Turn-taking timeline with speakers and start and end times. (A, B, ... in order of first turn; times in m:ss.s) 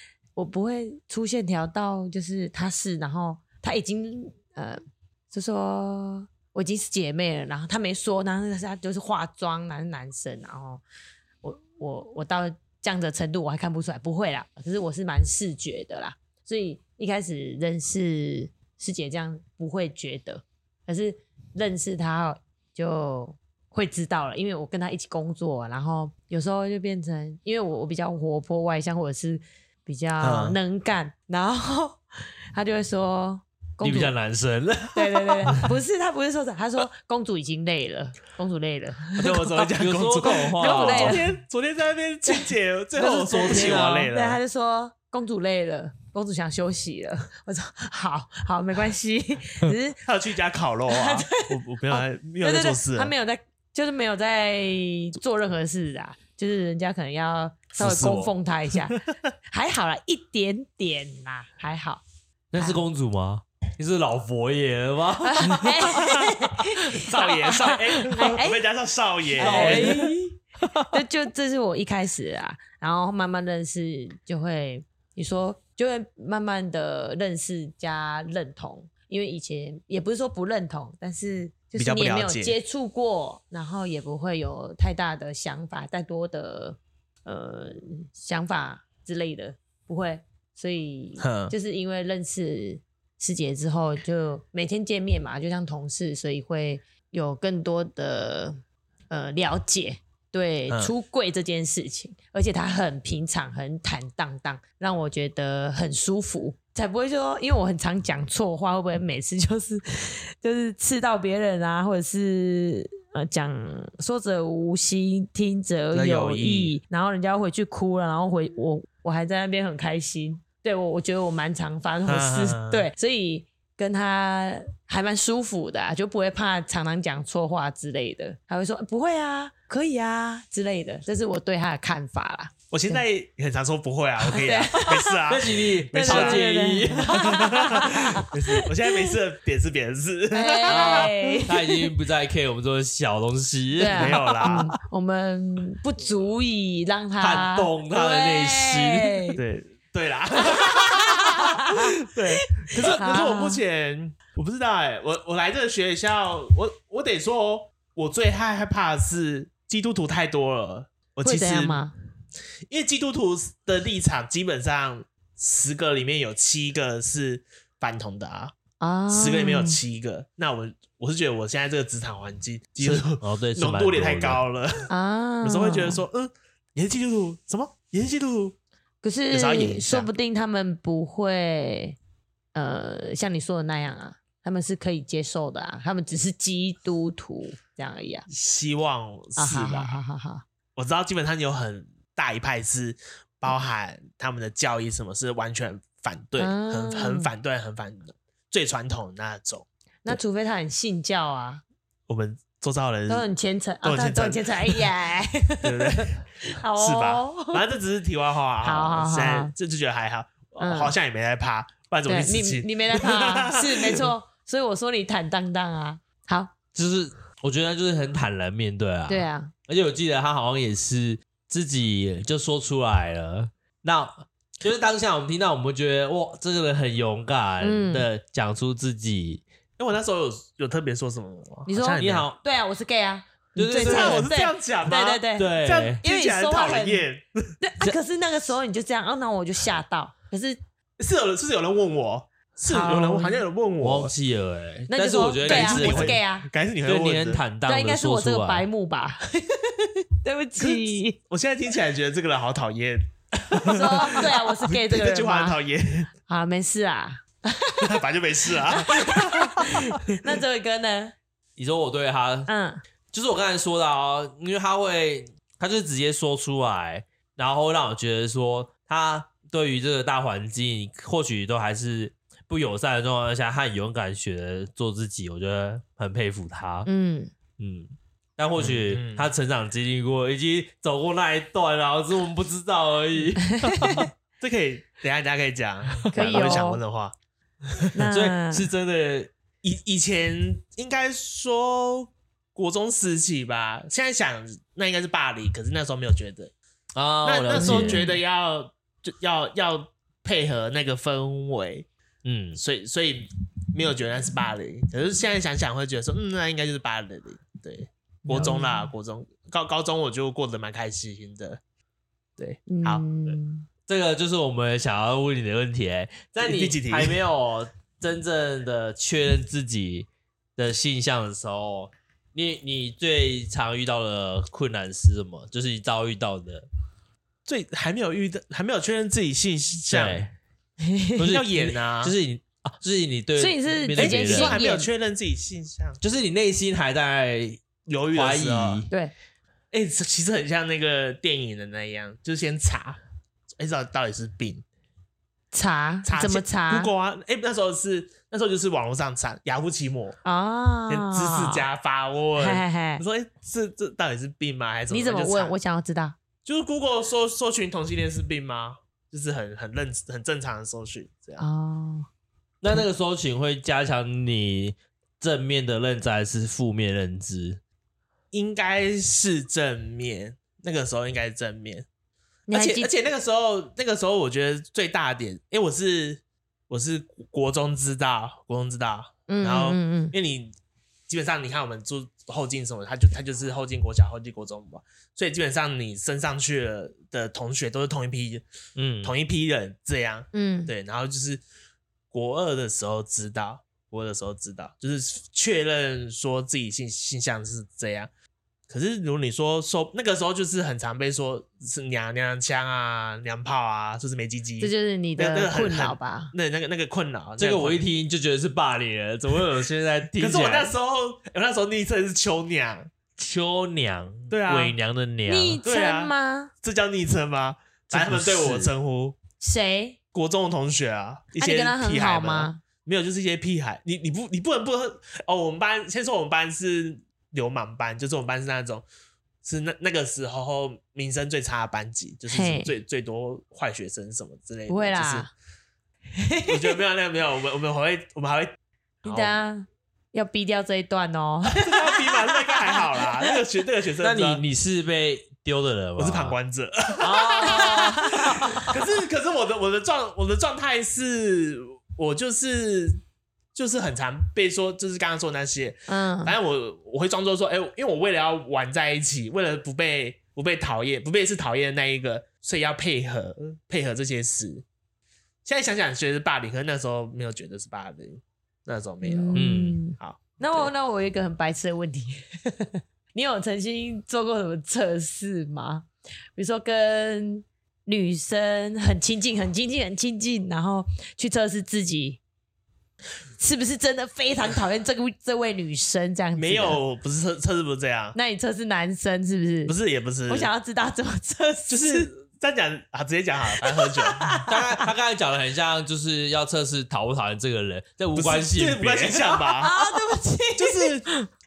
0:00.4-0:10.8 A
0:11.4-0:32.0 A
0:30.2-0:30.6 B
0:32.5-0:34.1 A
0:33.8-0:35.6 C
0:34.9-0:39.2 A
0:39.2-0:44.4 B
0:39.2-0:41.2 C
0:40.3-0:41.3 A
0:43.0-0:44.1 C
0:43.5-0:50.0 A
0:50.0-0:53.1 B
0:50.9-0:59.0 A
0:57.8-0:58.3 B
0:59.5-1:02.0 A
1:02.5-1:07.5 C
1:05.2-1:08.6 A
1:07.0-1:10.0 B
1:09.4-1:10.3 A
1:09.4-1:11.0 C
1:10.9-2:13.0 A
1:21.8-1:22.6 B
1:31.2-1:31.5 B
1:55.9-1:56.8 B
2:02.0-2:02.9 B
2:12.7-2:16.4 B
2:14.3-2:15.2 A
2:15.3-2:18.0 C
2:15.9-2:18.9 A
2:17.2-2:21.1 B
2:20.3-2:21.9 A
2:20.7-2:24.7 C
2:23.8-2:29.4 A
2:23.9-2:24.7 B
2:27.2-2:29.3 C
2:29.4-2:41.8 B
2:30.4-2:32.0 A
2:32.5-2:33.6 A
2:41.2-2:41.9 A
2:42.7-2:48.5 B
2:48.8-2:49.8 A
2:49.1-2:54.9 B
2:52.8-2:54.4 C
2:54.9-2:56.0 A
2:55.4-2:58.6 B
2:59.0-3:02.0 A
2:59.3-3:00.1 B
3:02.5-3:08.3 A
3:08.3-3:10.0 B
3:09.4-3:10.4 A
3:10.8-3:20.2 B
3:16.4-3:17.3 A
3:20.0-3:21.6 A
3:22.1-3:23.3 B
3:23.1-3:27.6 A
3:23.8-3:24.9 B
3:25.6-3:34.1 B
3:28.6-3:29.5 A
3:30.6-3:30.9 A
3:32.0-3:36.5 A
3:36.7-3:49.4 C
3:39.1-3:39.5 A
3:47.6-3:48.0 A
3:49.8-3:52.3 B
3:51.6-3:57.0 A
3:52.0-3:52.4 C
3:53.6-3:54.3 C
3:53.6-3:57.5 B
3:55.2-3:56.0 C
3:57.6-4:00.6 A
4:01.0-4:04.1 B
4:02.7-4:03.4 A
4:03.8-4:06.2 C
4:04.9-4:06.5 A
4:05.4-4:07.4 B
4:06.8-4:08.6 C
4:07.6-4:11.2 A
4:10.6-4:16.1 B
4:13.6-4:15.6 A
4:16.3-4:18.0 A
4:17.8-4:19.7 B
4:18.6-4:21.1 A
4:21.6-4:22.5 C
4:22.5-4:22.8 A
4:23.1-4:36.9 C
4:36.8-4:37.3 A
4:37.6-4:44.1 C
4:38.6-4:39.3 B
4:43.6-4:44.0 A
4:44.4-4:47.1 B
4:46.1-4:46.8 A
4:47.7-4:48.0 B
4:47.9-4:48.7 A
4:48.0-4:49.3 C
4:49.6-4:56.5 B
4:56.9-4:58.0 C
4:57.2-5:01.8 B
4:57.5-4:58.2 A
5:02.2-5:02.6 C
5:02.6-5:11.6 B
5:08.2-5:08.9 A
5:12.4-5:13.4 B
5:12.7-5:13.6 A
5:13.9-5:26.6 C
5:16.4-5:17.2 B
5:27.4-5:30.2 B
5:29.9-5:30.3 C
5:30.8-5:31.2 A
5:31.2-5:34.6 C
5:31.2-5:32.2 B
5:33.4-5:34.9 A
5:34.0-5:36.0 B
5:36.0-5:38.9 C
5:37.9-5:38.8 B
5:39.7-5:43.0 B
5:43.6-5:44.6 B
5:45.5-5:46.9 A
5:46.0-5:50.2 B
5:50.2-5:51.6 A
5:50.9-5:55.5 B
5:52.4-5:53.0 A
5:54.9-5:56.2 A
5:56.4-6:01.4 B
6:01.4-6:02.1 A
6:02.6-6:07.6 C
6:08.3-6:11.8 B
6:12.5-6:12.9 A
6:12.5-6:20.5 B
6:19.3-6:20.1 A
6:21.1-6:28.4 B
6:28.8-6:29.1 C
6:29.0-6:31.4 B
6:30.3-6:30.7 A
6:32.1-6:38.1 B
6:38.7-6:47.8 B
6:44.6-6:46.3 A
6:47.4-6:50.7 C
6:50.2-6:52.9 B
6:53.2-6:55.6 C
6:54.3-6:54.8 B
6:55.3-6:56.5 A
6:55.6-6:59.2 B
6:57.9-6:58.7 C
6:59.4-7:00.0 A
7:00.1-7:08.8 B
7:01.4-7:02.6 A
7:09.4-7:15.3 B
7:12.3-7:12.7 A
7:14.7-7:15.3 A
7:16.2-7:16.7 A
7:16.4-7:19.3 B
7:19.0-7:22.8 A
7:21.5-7:24.4 B
7:24.0-7:26.3 C
7:26.0-7:27.9 B
7:27.0-7:28.7 C
7:27.4-7:28.5 A
7:28.5-7:33.0 B
7:33.5-7:44.6 B
7:35.9-7:36.3 A
7:45.4-7:49.4 B
7:49.0-8:02.2 A
7:49.3-7:49.8 C
7:50.0-7:50.7 B
8:03.4-8:06.8 A
8:06.3-8:08.2 B
8:08.1-8:09.7 A
8:09.7-8:10.5 B
8:10.3-8:12.1 A
8:11.7-8:14.4 B
8:13.6-8:14.9 A
8:14.5-8:19.5 C
8:18.1-8:19.8 B
8:19.6-8:21.3 A
8:20.6-8:21.1 B